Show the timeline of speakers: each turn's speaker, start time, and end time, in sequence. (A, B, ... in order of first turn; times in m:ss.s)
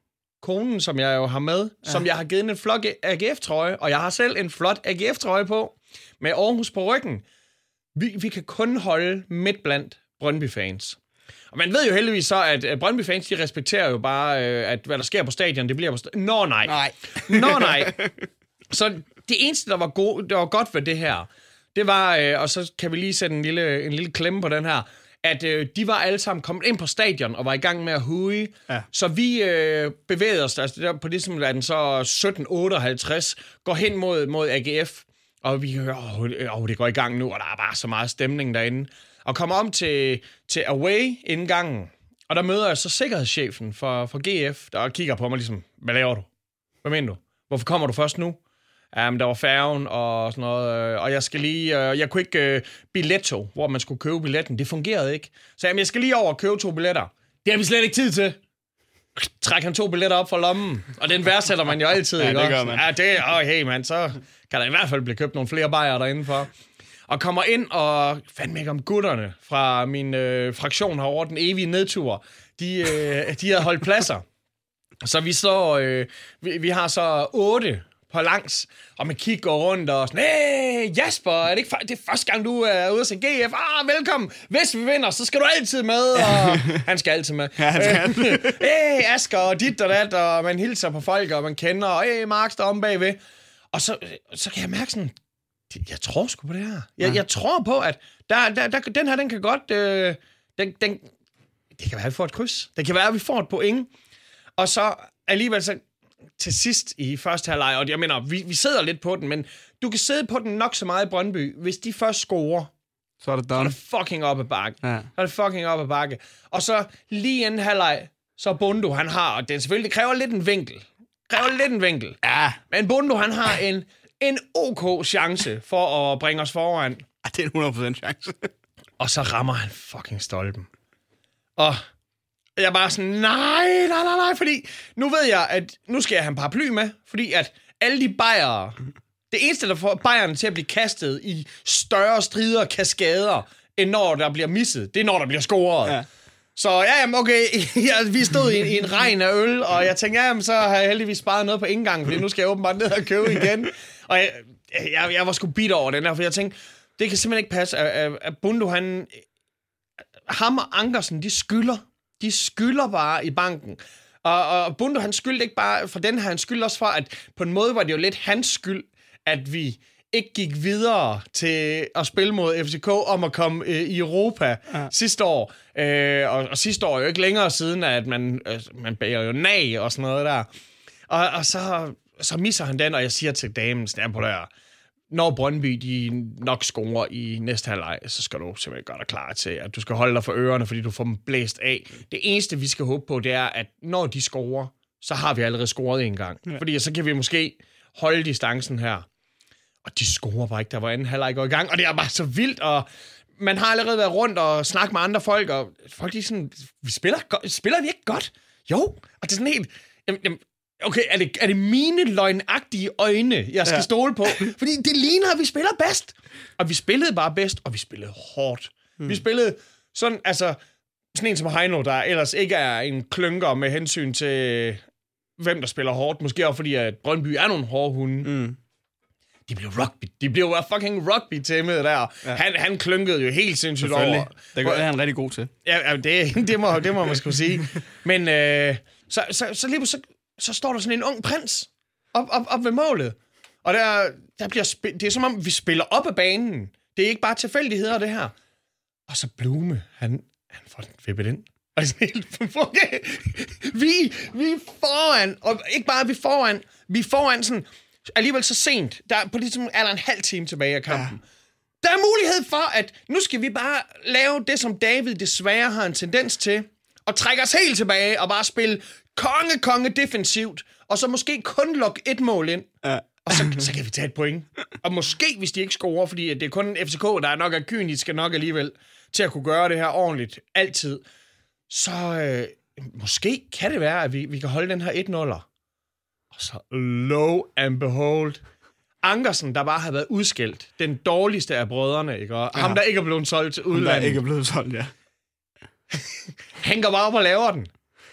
0:00.4-0:07.2 A
0:08.0-0:11.0 A
0:11.5-0:18.0 A
0:16.7-0:18.1 B
0:18.7-0:46.3 A
0:46.8-0:48.4 A
0:48.9-0:58.4 A
0:59.2-1:06.5 A
1:02.2-1:02.8 B
1:07.1-1:14.2 A
1:15.0-1:33.2 A
1:26.2-1:26.8 B
1:27.6-1:28.6 B
1:33.7-1:35.1 A
1:35.7-1:41.1 A
1:41.8-1:43.9 A
1:44.6-1:45.8 A
1:46.4-1:52.7 A
1:53.2-1:53.8 B
1:53.6-2:07.0 A
1:54.8-1:55.1 B
2:02.2-2:02.6 B
2:07.2-2:08.5 B
2:09.0-2:10.7 A
2:11.6-2:11.8 A
2:12.6-2:18.8 A
2:19.3-2:26.0 A
2:26.6-2:39.1 A
2:40.3-3:00.5 A
3:01.1-3:04.5 A
3:05.1-3:19.1 A
3:19.9-3:22.9 A
3:23.4-3:40.6 A
3:33.7-3:34.5 B
3:41.1-3:44.8 A
3:45.4-3:48.4 A
3:48.2-3:48.6 B
3:49.5-3:54.8 A
3:53.8-3:55.5 B
3:55.6-4:08.3 A
4:09.1-4:21.2 A
4:20.9-4:21.1 B
4:21.8-4:32.7 A
4:32.8-4:33.6 B
4:33.2-4:41.0 A
4:41.7-4:45.4 A
4:46.3-4:48.4 A
4:49.0-4:54.2 A
4:52.5-4:52.8 B
4:53.7-4:54.9 B
4:55.9-4:57.7 A